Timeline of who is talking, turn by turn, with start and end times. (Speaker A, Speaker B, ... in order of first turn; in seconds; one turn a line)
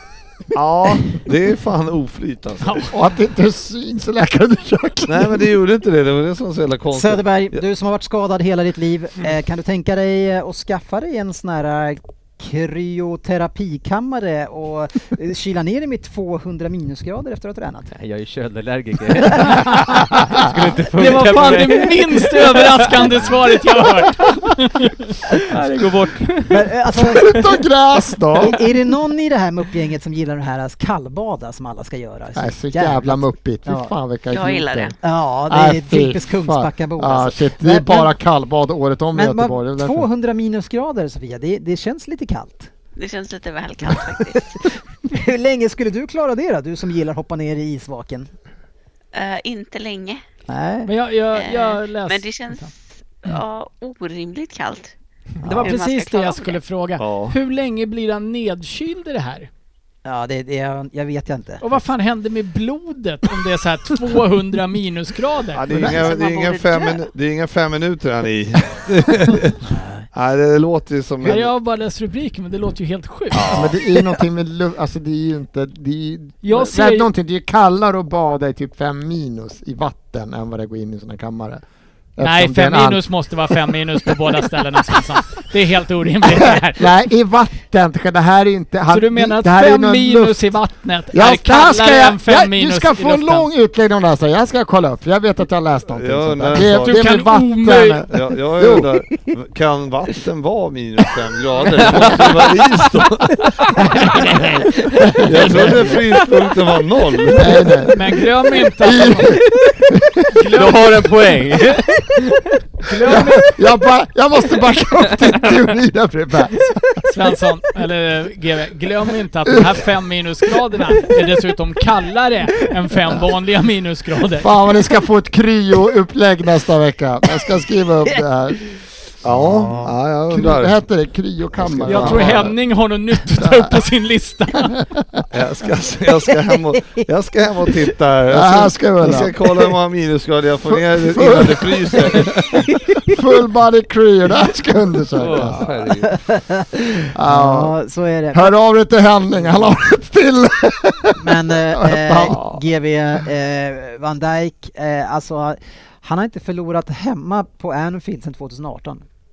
Speaker A: 0.5-2.9
Speaker B: 2.6-2.9
Speaker C: 2.9-5.5
Speaker A: 5.1-7.5
Speaker D: 6.9-17.9
Speaker E: 17.9-23.9
Speaker D: 19.2-20.0
Speaker B: 20.9-25.5
Speaker E: 25.5-26.7
Speaker D: 26.5-27.4
Speaker C: 27.1-28.6
Speaker D: 28.4-33.9
Speaker C: 32.4-35.0
Speaker F: 34.3-35.0
Speaker D: 35.0-38.1
Speaker C: 35.5-40.1
Speaker D: 39.1-42.7
Speaker F: 43.0-44.6
Speaker D: 45.1-48.3
Speaker F: 49.1-50.2
Speaker D: 50.5-50.9
Speaker B: 50.9-52.7
Speaker F: 51.3-54.9
Speaker D: 55.4-55.8
Speaker B: 55.5-59.5
Speaker F: 55.6-56.6
Speaker A: 57.0-57.4
Speaker D: 60.0-61.6
Speaker B: 61.6-65.8
Speaker A: 65.5-71.5
Speaker F: 66.1-66.6
Speaker D: 66.1-66.6
Speaker D: 69.7-70.1
Speaker B: 71.2-73.7
Speaker A: 73.3-73.8
Speaker C: 73.5-81.6
Speaker B: 76.4-77.1
Speaker C: 82.2-85.0
Speaker B: 82.2-87.0
Speaker C: 86.2-98.9
Speaker B: 88.9-93.5
Speaker A: 95.9-97.2
Speaker B: 96.7-98.1
Speaker A: 98.1-103.5
Speaker E: 101.8-102.6
Speaker C: 103.8-106.0
Speaker E: 104.8-106.2
Speaker A: 105.2-107.7
Speaker C: 107.4-108.0
Speaker B: 107.9-109.4
Speaker C: 108.8-109.4
Speaker C: 109.9-110.3
Speaker B: 110.3-111.1
Speaker E: 110.5-112.3
Speaker B: 112.9-113.5
Speaker C: 113.0-117.0
Speaker B: 117.1-124.5
Speaker C: 119.5-119.7
Speaker C: 124.4-128.6
Speaker A: 129.2-130.8
Speaker C: 129.4-132.5
Speaker D: 129.6-129.9
Speaker A: 131.6-132.5
Speaker B: 131.9-134.8
Speaker C: 133.4-133.8
Speaker A: 135.3-142.6
Speaker C: 138.3-139.7
Speaker C: 140.7-142.5
Speaker D: 142.9-143.2
Speaker C: 143.1-145.7
Speaker E: 145.2-146.1
Speaker D: 146.0-148.5
Speaker C: 147.1-147.8
Speaker C: 148.3-152.6
Speaker D: 151.2-159.1